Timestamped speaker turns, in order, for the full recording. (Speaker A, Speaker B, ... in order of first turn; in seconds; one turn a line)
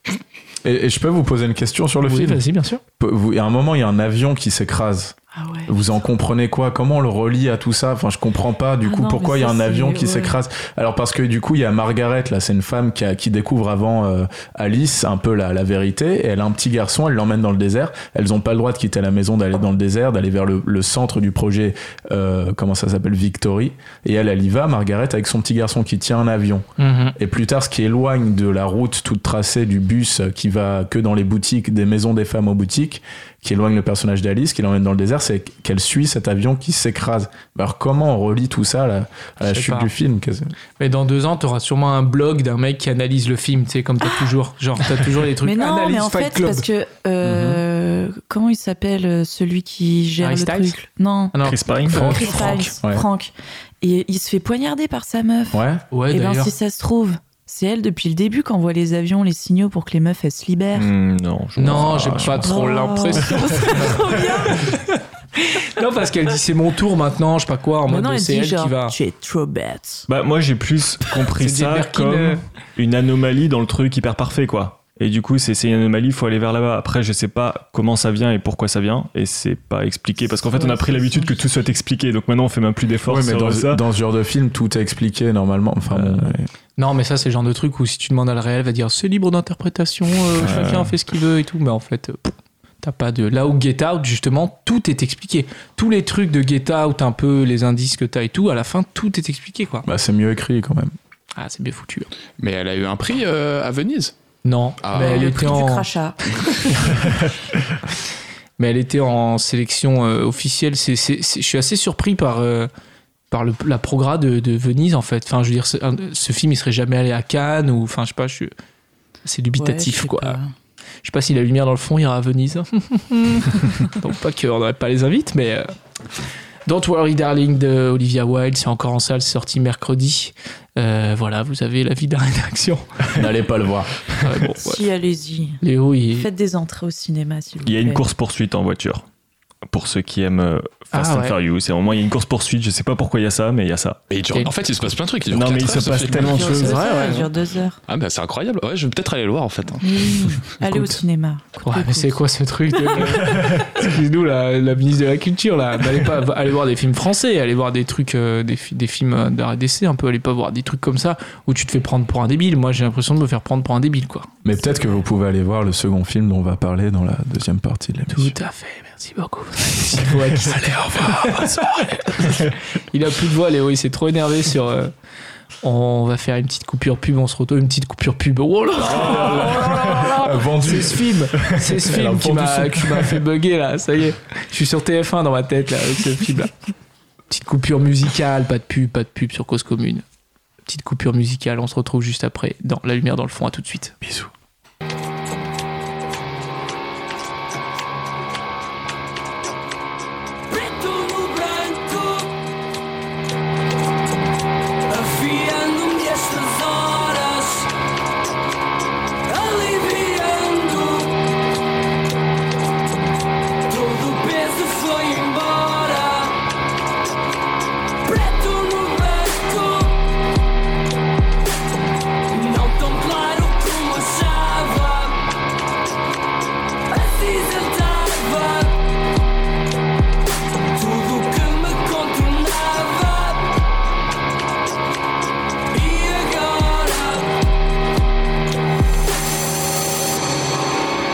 Speaker A: 0.6-2.4
Speaker B: 2.0-2.8
Speaker A: 3.0-5.1
Speaker C: 5.3-5.9
Speaker A: 5.7-40.5
Speaker C: 8.8-10.4
Speaker B: 26.8-27.1
Speaker B: 39.4-39.9
Speaker B: 40.8-46.6
Speaker C: 44.0-44.3
Speaker C: 45.4-51.4
Speaker A: 47.2-47.6
Speaker B: 50.2-50.8
Speaker B: 51.3-52.7
Speaker D: 51.4-52.0
Speaker A: 51.9-53.0
Speaker C: 52.0-60.9
Speaker A: 55.5-55.8
Speaker B: 55.9-56.5
Speaker D: 60.7-64.0
Speaker B: 61.6-68.9
Speaker C: 62.4-64.8
Speaker C: 67.9-70.0
Speaker D: 70.1-83.8
Speaker B: 71.3-72.4
Speaker C: 80.5-81.4
Speaker A: 83.0-86.5
Speaker D: 85.9-86.3
Speaker B: 86.8-99.9
Speaker D: 90.4-90.9
Speaker A: 99.8-100.9
Speaker B: 101.3-102.1
Speaker E: 102.4-104.1
Speaker B: 104.4-105.9
Speaker E: 104.8-105.5
Speaker C: 104.9-107.0
Speaker B: 108.6-112.7
Speaker B: 113.3-118.5
Speaker B: 119.2-120.4
Speaker C: 119.6-120.5
Speaker B: 121.0-125.7
Speaker B: 126.7-133.2
Speaker A: 133.1-134.0
Speaker B: 134.2-134.8
Speaker C: 134.6-135.6
Speaker B: 135.6-136.3
Speaker C: 136.1-138.0
Speaker D: 137.6-139.0
Speaker D: 139.7-144.0
Speaker B: 140.9-141.3
Speaker E: 144.1-146.6
Speaker D: 145.3-147.1
Speaker C: 146.2-147.8
Speaker B: 146.5-147.3
Speaker E: 147.9-150.3
Speaker C: 149.8-152.2
Speaker B: 150.6-151.0
Speaker B: 151.6-164.3
Speaker C: 152.7-153.4
Speaker A: 164.4-168.3
Speaker B: 168.1-174.9
Speaker B: 175.6-186.5
Speaker A: 178.9-183.2
Speaker D: 179.1-179.8
Speaker B: 187.3-190.0
Speaker B: 190.7-194.0
Speaker F: 200.5-202.3
Speaker F: 204.9-207.7
Speaker F: 209.3-211.3
Speaker F: 213.7-216.4
Speaker F: 218.0-220.1
Speaker F: 222.3-225.2
Speaker F: 226.9-228.9
Speaker F: 230.7-233.6
Speaker F: 235.7-237.4